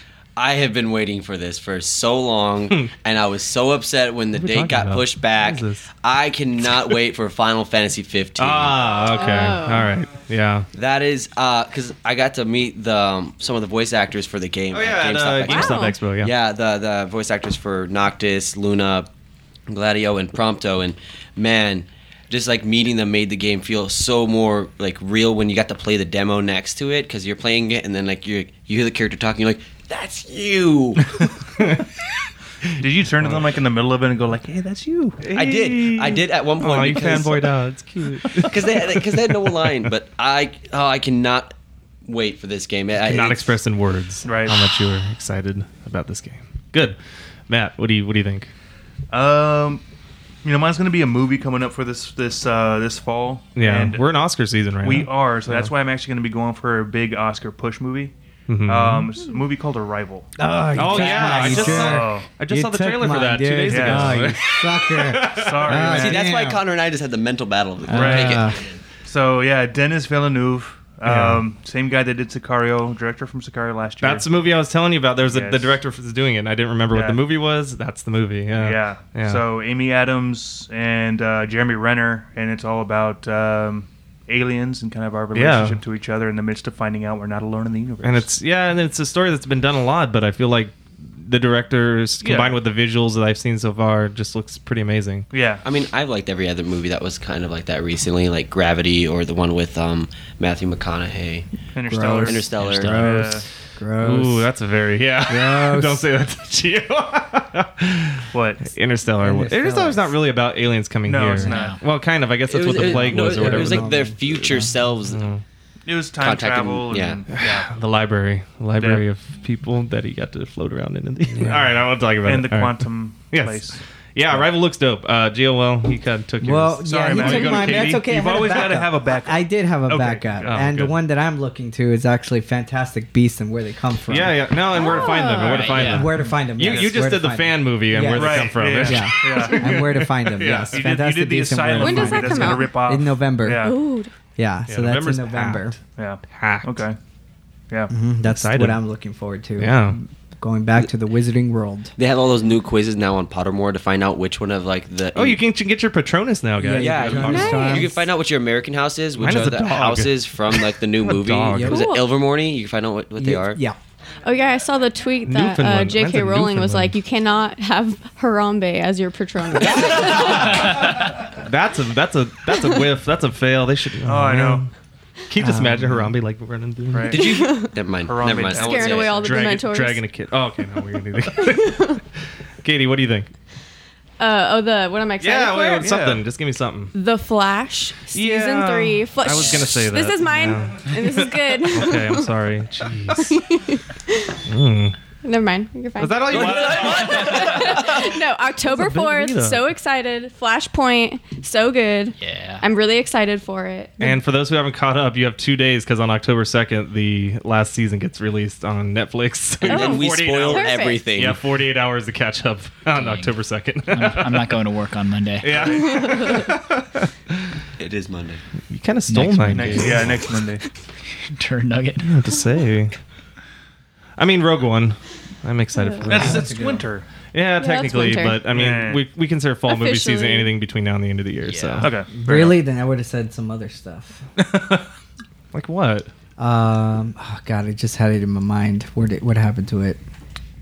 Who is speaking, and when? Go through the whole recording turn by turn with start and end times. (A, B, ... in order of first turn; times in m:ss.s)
0:00.4-0:08.9 A
0:04.3-0:05.9 B
0:08.4-0:10.7 B
0:09.1-0:09.9 C
0:10.7-0:19.1 A
0:14.7-0:16.3 B
0:15.5-0:16.0 C
0:19.7-0:31.2 A
0:32.8-0:35.2 D
0:35.2-0:39.9 B
0:35.3-0:37.5 A
0:38.3-0:41.5 A
0:42.0-0:43.6 A
0:43.0-0:47.0 B
0:44.2-0:44.7 D
0:47.5-0:48.5 B
0:49.1-0:49.8 D
0:50.4-0:54.0 D
0:53.6-0:55.7 B
0:54.8-0:58.1 D
0:58.5-0:59.1 B
0:58.6-1:00.3 D
1:00.4-1:06.6 E
1:00.7-1:06.0 B
1:00.9-1:02.3 D
1:03.7-1:04.3 D
1:05.2-1:06.2 D
1:05.9-1:08.7 A
1:07.9-1:08.6 E
1:07.9-1:08.4 D
1:09.0-1:14.3 D
1:11.0-1:11.4 B
1:14.0-1:19.4 B
1:15.2-1:15.7 D
1:16.9-1:17.2 D
1:18.5-1:28.3 D
1:25.3-1:25.8 B
1:28.0-1:35.3 B
1:32.2-1:32.6 D
1:35.3-1:35.6 D
1:35.6-1:41.5 A
1:41.7-1:42.5 D
1:41.9-1:44.5 E
1:42.0-1:43.1 A
1:42.5-1:43.3 F
1:43.0-1:43.4 D
1:44.0-1:55.4 B
1:45.3-1:46.0 E
1:48.3-1:48.7 D
1:49.2-1:50.1 E
1:51.0-1:51.8 D
1:51.4-1:51.8 F
1:52.5-1:55.2 A
1:52.7-1:54.2 E
1:55.8-1:57.7 D
1:56.2-1:57.2 A
1:57.3-2:08.0 B
1:58.8-1:59.0 D
2:02.2-2:03.8 D
2:06.4-2:14.4 E
2:06.8-2:10.8 D
2:10.4-2:10.9 B
2:14.1-2:20.9 B
2:14.7-2:15.9 C
2:15.4-2:16.1 F
2:15.8-2:23.7 E
2:16.6-2:17.0 D
2:18.1-2:19.8 D
2:20.7-2:23.8 D
2:21.8-2:22.8 C
2:23.6-2:24.1 C
2:24.4-2:25.8 E
2:24.7-2:25.7 B
2:26.0-2:27.0 D
2:26.3-2:26.8 B
2:27.9-2:31.9 E
2:28.2-2:28.8 B
2:29.6-2:30.0 B
2:32.0-2:35.4 A
2:35.1-2:37.7 B
2:36.6-2:38.0 E
2:36.7-2:43.6 A
2:37.3-2:37.9 C
2:39.2-2:41.8 B
2:41.5-2:41.8 E
2:41.6-2:42.1 C
2:43.2-2:43.8 E
2:44.2-2:50.9 C
2:45.2-2:46.9 B
2:49.6-2:54.7 B
2:54.0-2:54.6 D
2:55.3-2:57.4 B
2:55.4-2:56.1 E
2:56.9-2:59.5 D
2:57.1-2:59.4 A
2:57.2-2:57.8 C
2:58.5-3:00.0 C
2:59.1-3:02.0 B
3:01.4-3:02.0 C
3:02.6-3:03.3 B
3:04.2-3:05.9 C
3:05.2-3:06.9 B
3:05.8-3:06.2 D
3:06.9-3:12.4 C
3:08.1-3:13.4 B
3:13.1-3:14.4 C
3:14.5-3:15.0 B
3:15.2-3:24.2 C
3:16.0-3:17.9 B
3:16.3-3:18.1 A
3:18.6-3:19.7 B
3:22.2-3:22.6 F
3:24.0-3:34.6 B
3:29.6-3:31.1 C
3:29.6-3:31.4 A
3:32.9-3:33.3 F
3:33.9-3:35.7 F
3:35.4-3:37.5 B
3:35.5-3:35.9 D
3:36.0-3:36.4 C
3:37.8-3:38.4 A
3:38.7-3:40.3 B
3:39.1-3:40.1 F
3:39.5-3:40.6 D
3:41.1-3:42.2 F
3:42.0-3:42.9 B
3:44.2-3:46.5 B
3:45.8-3:46.1 C
3:46.1-3:47.1 D
3:46.1-3:46.8 E
3:47.3-3:51.9 B
3:47.6-3:48.5 C
3:48.5-3:49.0 D
3:49.7-3:50.5 C
3:51.4-3:51.9 F
3:51.8-3:52.6 D
3:52.1-3:54.2 E
3:54.4-3:54.9 D
3:55.5-3:56.1 B
3:56.4-4:00.0 E